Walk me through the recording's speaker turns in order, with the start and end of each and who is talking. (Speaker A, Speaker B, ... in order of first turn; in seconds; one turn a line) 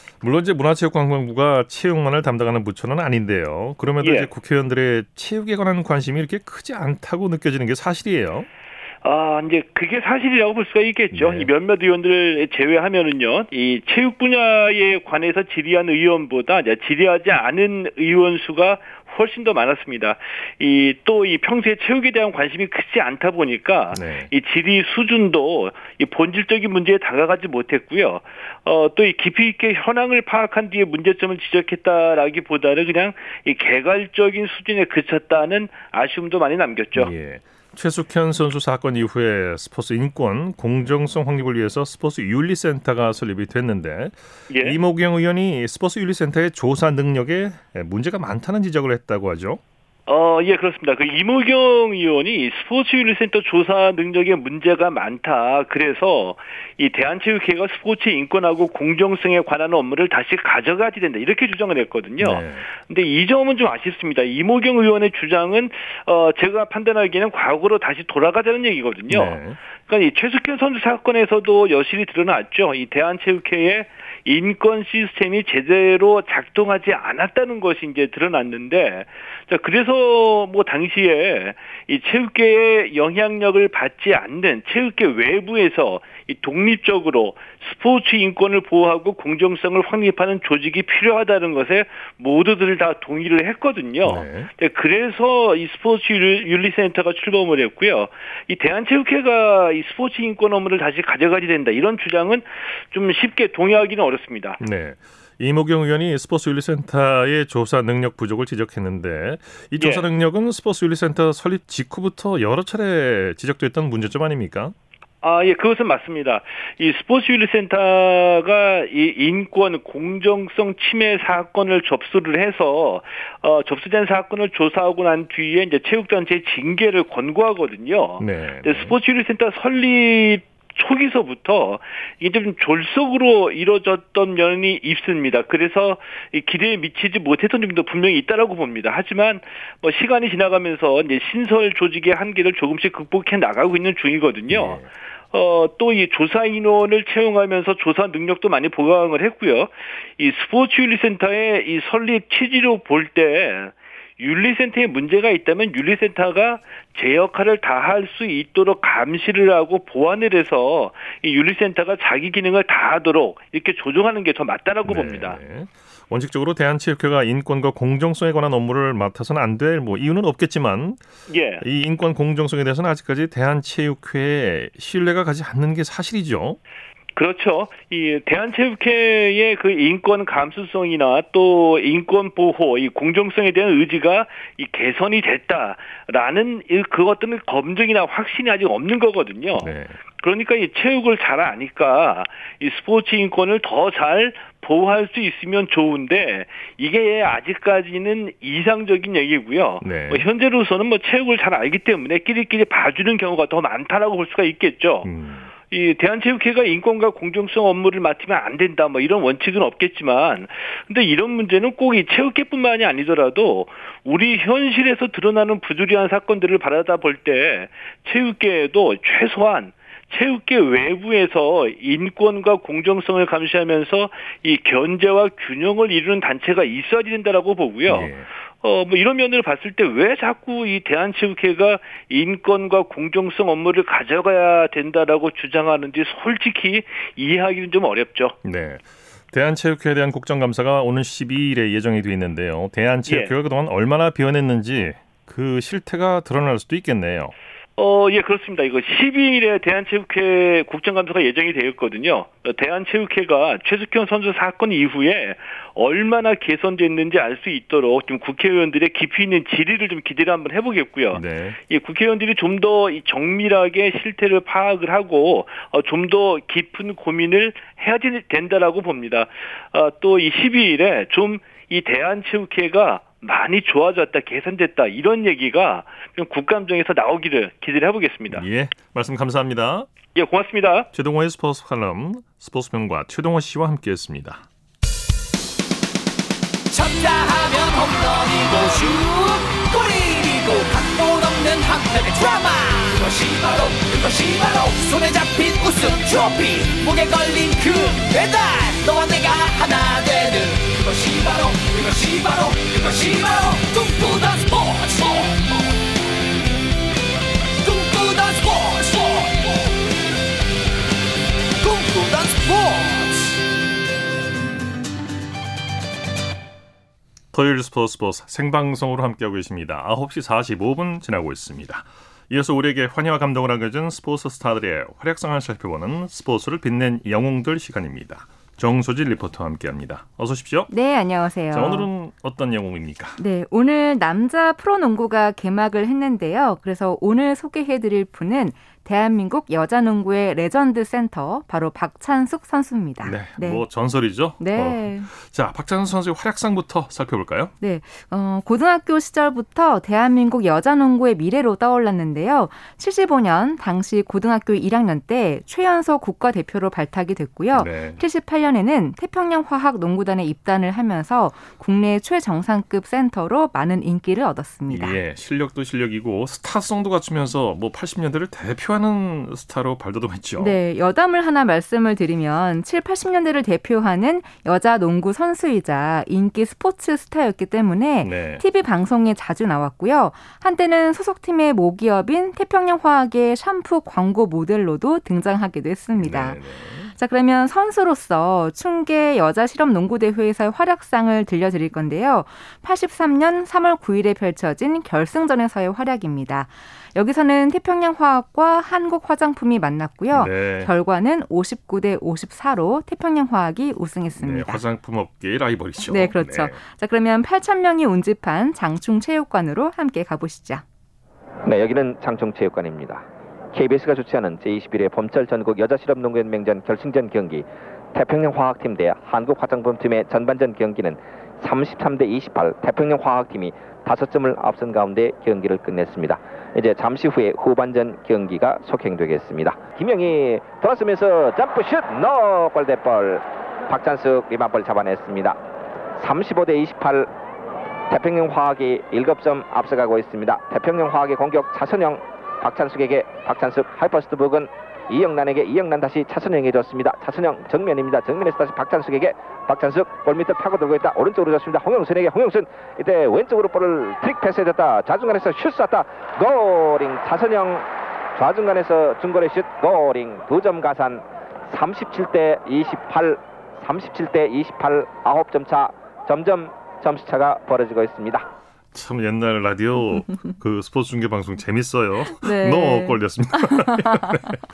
Speaker A: 0.2-8.5
Speaker B: 4.0-4.3
Speaker B: 9.0-37.1
Speaker A: 11.1-11.5
Speaker A: 23.9-24.3
Speaker A: 37.0-49.6
Speaker B: 44.5-44.8
Speaker B: 50.1-104.6
Speaker A: 62.2-62.7
Speaker A: 69.1-69.6
Speaker A: 94.0-94.5
Speaker A: 104.6-114.8
Speaker B: 109.8-110.1
Speaker B: 115.2-165.4
Speaker A: 128.2-129.0
Speaker A: 144.5-144.9
Speaker A: 164.9-171.0
Speaker B: 171.3-171.6
Speaker A: 171.6-176.6
Speaker B: 177.2-205.1
Speaker A: 189.6-190.0
Speaker A: 199.8-200.2
Speaker A: 205.0-205.5
Speaker B: 205.7-238.4
Speaker A: 227.9-228.3
Speaker A: 238.4-247.3
Speaker B: 243.1-243.3
Speaker B: 247.8-278.4
Speaker A: 261.1-261.6
Speaker A: 278.3-279.9
Speaker B: 280.1-280.9
Speaker A: 280.9-284.5
Speaker C: 286.7-305.7
Speaker C: 307.6-309.8
Speaker C: 311.6-313.4
Speaker A: 317.3-330.7
Speaker D: 330.7-331.9
Speaker A: 331.5-333.2
Speaker D: 333.2-343.7
Speaker A: 343.0-347.5
Speaker D: 344.4-345.1
Speaker D: 347.6-365.0
Speaker A: 357.5-358.0
Speaker A: 364.7-370.6
Speaker D: 370.4-404.6
Speaker A: 378.0-378.4
Speaker A: 386.0-386.9
Speaker A: 400.1-400.7
Speaker A: 404.2-406.6
Speaker D: 405.8-410.6
Speaker E: 411.5-435.4
Speaker E: 436.0-437.1
Speaker E: 437.9-468.2
Speaker A: 468.7-474.4
Speaker D: 472.2-474.1